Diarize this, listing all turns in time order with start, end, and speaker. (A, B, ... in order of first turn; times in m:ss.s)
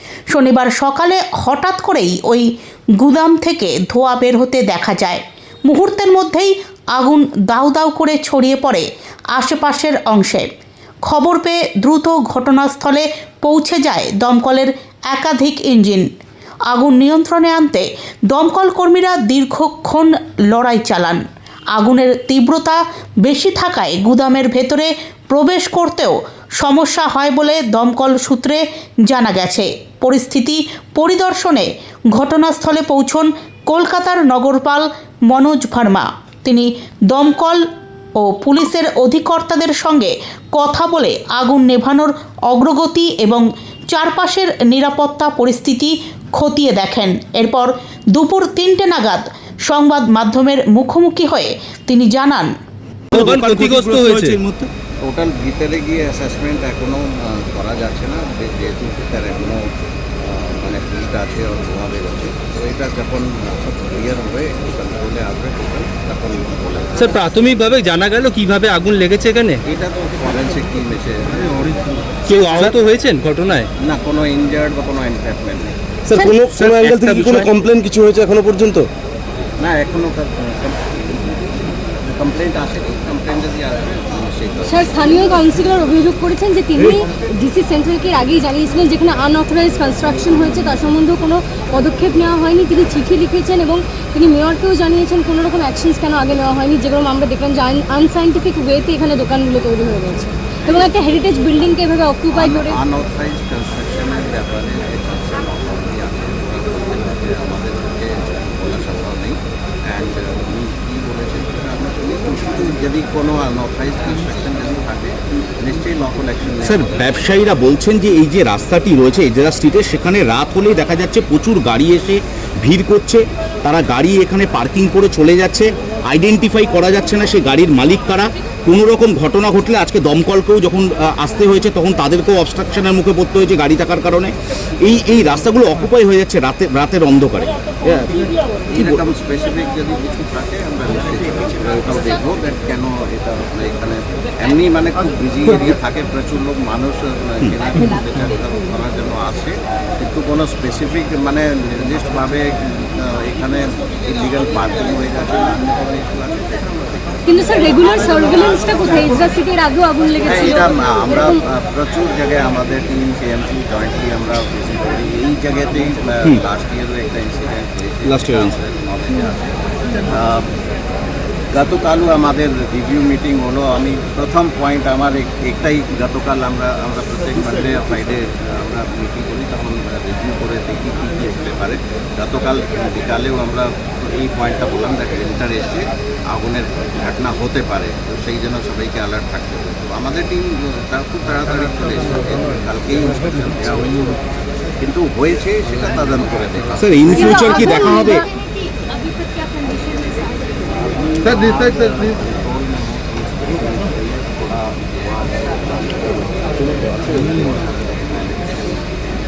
0:00.3-0:10.5 A
0:11.1-0:16.1 A
0:16.7-0:21.2 A
0:21.7-0:37.6 A
0:38.2-0:52.5 A
0:53.1-0:54.4 B
0:53.1-0:54.7 C
0:55.0-0:59.6 D
1:00.2-1:07.2 D
1:07.0-1:09.6 B
1:09.7-1:12.7 D
1:12.3-1:13.7 B
1:13.8-1:15.8 D
1:16.1-1:18.9 E
1:16.1-1:16.4 F
1:16.5-1:17.5 B
1:19.6-1:25.3 D
1:24.6-1:42.8 F
1:42.3-1:56.9 D
1:56.6-2:18.2 C
2:18.7-2:38.9 D
2:18.8-2:19.0 C
2:37.3-2:41.4 F
2:40.2-2:50.5 D
2:48.1-2:48.6 C
2:51.5-3:14.2 D
3:14.8-3:18.0 D
3:16.8-3:18.2 C
3:17.1-3:18.3 F
3:20.1-3:29.0 D